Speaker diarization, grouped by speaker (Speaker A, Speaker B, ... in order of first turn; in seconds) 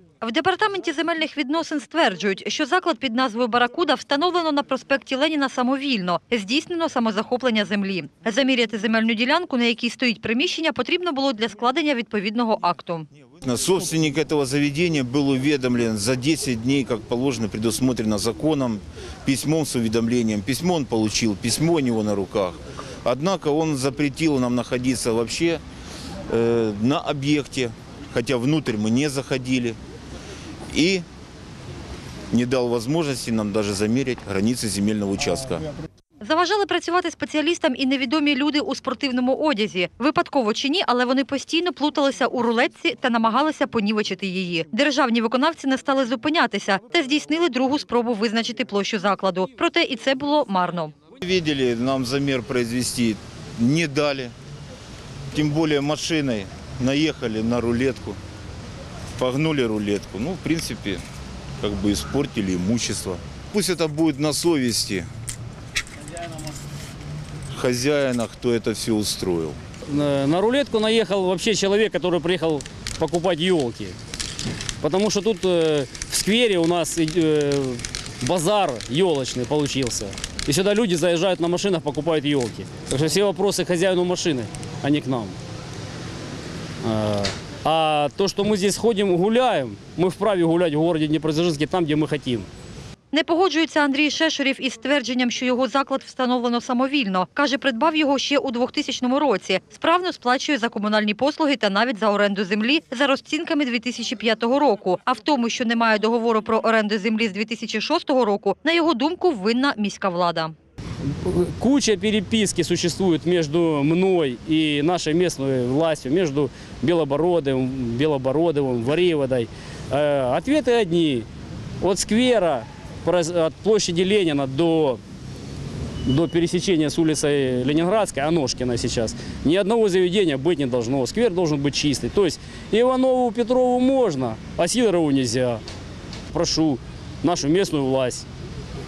Speaker A: 0.2-13.0, 36.2-50.7, 93.1-110.5
Speaker B: 13.4-25.6, 26.3-29.8, 30.7-31.0, 32.3-35.6, 51.2-54.3, 55.3-58.2, 59.2-61.0, 61.6-65.1, 67.5-69.6
Speaker C: 69.9-73.9, 74.8-85.3, 86.8-92.5, 111.2-121.2, 121.8-125.0, 126.0-135.6, 136.3-138.2